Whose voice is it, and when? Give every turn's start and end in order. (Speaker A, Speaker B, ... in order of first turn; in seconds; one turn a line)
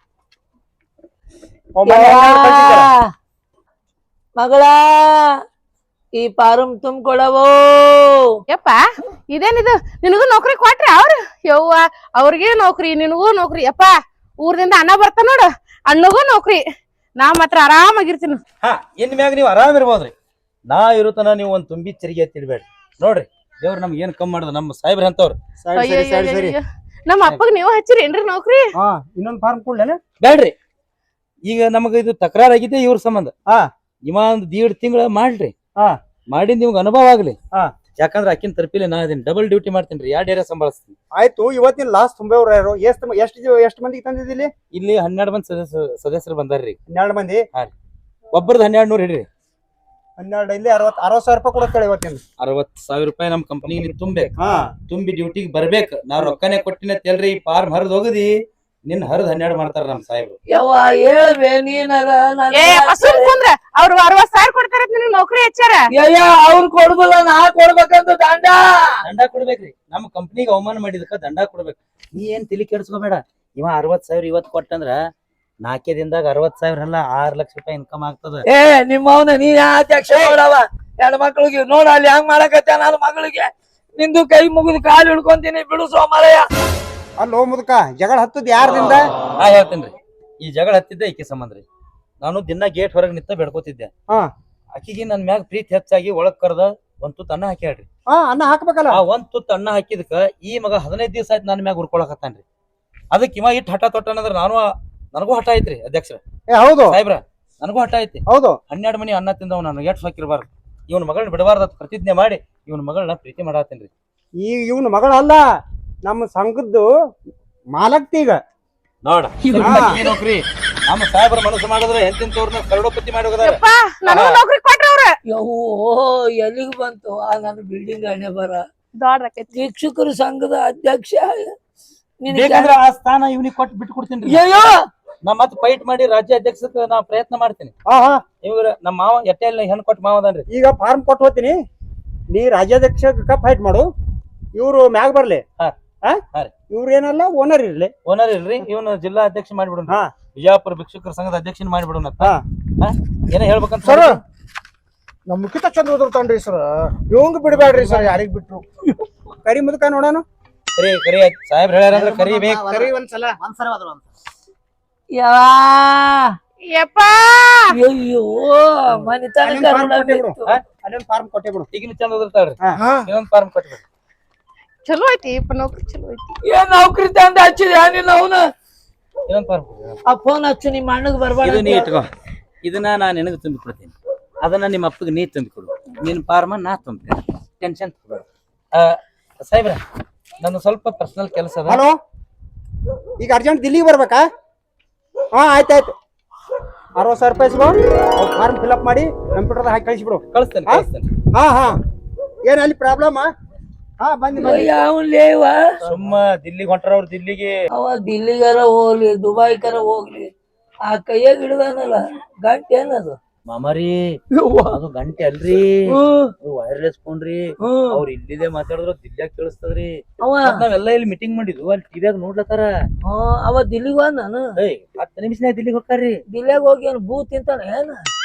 Speaker A: 1.8-2.9
Speaker B: 1.9-3.1
Speaker B: 4.4-5.4
Speaker B: 6.2-8.4
Speaker C: 8.5-16.6
Speaker C: 17.2-18.4
Speaker D: 18.6-20.1
Speaker D: 20.7-25.4
Speaker A: 25.7-26.5
Speaker C: 25.7-28.8
Speaker A: 28.8-30.0
Speaker D: 30.2-30.5
Speaker D: 31.5-33.3
Speaker D: 34.1-35.5
Speaker D: 36.3-37.4
Speaker D: 38.0-41.0
Speaker A: 41.2-44.5
Speaker D: 44.7-46.8
Speaker A: 46.9-47.4
Speaker D: 48.3-49.3
Speaker A: 50.2-52.2
Speaker D: 52.4-54.4
Speaker A: 54.4-54.7
Speaker D: 54.9-58.4
Speaker D: 58.9-60.4
Speaker B: 60.5-63.4
Speaker C: 62.5-65.9
Speaker B: 65.9-69.0
Speaker D: 69.0-75.0
Speaker D: 75.6-78.5
Speaker B: 78.5-86.5
Speaker A: 87.2-89.1
Speaker D: 89.4-91.7
Speaker D: 92.2-93.9
Speaker D: 94.8-97.9
Speaker A: 98.1-99.0
Speaker D: 98.9-102.4
Speaker D: 103.1-106.2
Speaker A: 106.5-107.0
Speaker D: 106.9-113.9
Speaker A: 108.3-108.6
Speaker A: 114.4-115.5
Speaker A: 116.0-116.9
Speaker A: 117.7-118.4
Speaker D: 119.0-124.4
Speaker B: 119.4-120.0
Speaker A: 119.6-120.0
Speaker C: 123.4-125.2
Speaker B: 125.3-128.7
Speaker C: 129.0-129.6
Speaker B: 129.5-131.6
Speaker B: 132.2-132.7
Speaker D: 132.3-134.4
Speaker B: 134.3-134.8
Speaker D: 135.2-137.7
Speaker A: 137.9-138.2
Speaker D: 138.4-140.4
Speaker A: 140.5-141.6
Speaker A: 142.3-143.9
Speaker A: 144.6-145.4
Speaker A: 146.0-147.9
Speaker D: 148.1-154.2
Speaker E: 153.8-154.2
Speaker E: 155.3-158.6
Speaker A: 159.4-160.2
Speaker D: 160.8-162.9
Speaker E: 162.0-163.6
Speaker B: 165.2-166.4
Speaker C: 166.7-167.8
Speaker B: 167.7-170.5
Speaker A: 169.4-171.7
Speaker D: 171.7-173.8
Speaker E: 172.8-173.0
Speaker C: 174.8-176.4
Speaker B: 176.4-178.5
Speaker D: 179.3-180.0
Speaker B: 180.1-181.9
Speaker D: 181.4-182.1
Speaker D: 182.6-189.8
Speaker D: 190.4-191.8
Speaker A: 191.7-192.0
Speaker A: 193.2-194.3
Speaker A: 195.3-195.9
Speaker A: 197.0-201.8
Speaker D: 200.3-201.1
Speaker A: 202.5-203.3
Speaker A: 204.0-204.7
Speaker B: 204.4-205.8
Speaker D: 205.8-207.6
Speaker B: 207.7-210.3
Speaker B: 210.9-213.2
Speaker D: 213.5-214.2
Speaker B: 214.3-214.8
Speaker D: 214.7-222.7
Speaker B: 215.9-216.3
Speaker B: 217.6-218.0
Speaker B: 220.2-220.6
Speaker B: 223.1-224.5
Speaker D: 224.6-226.2
Speaker B: 226.3-228.1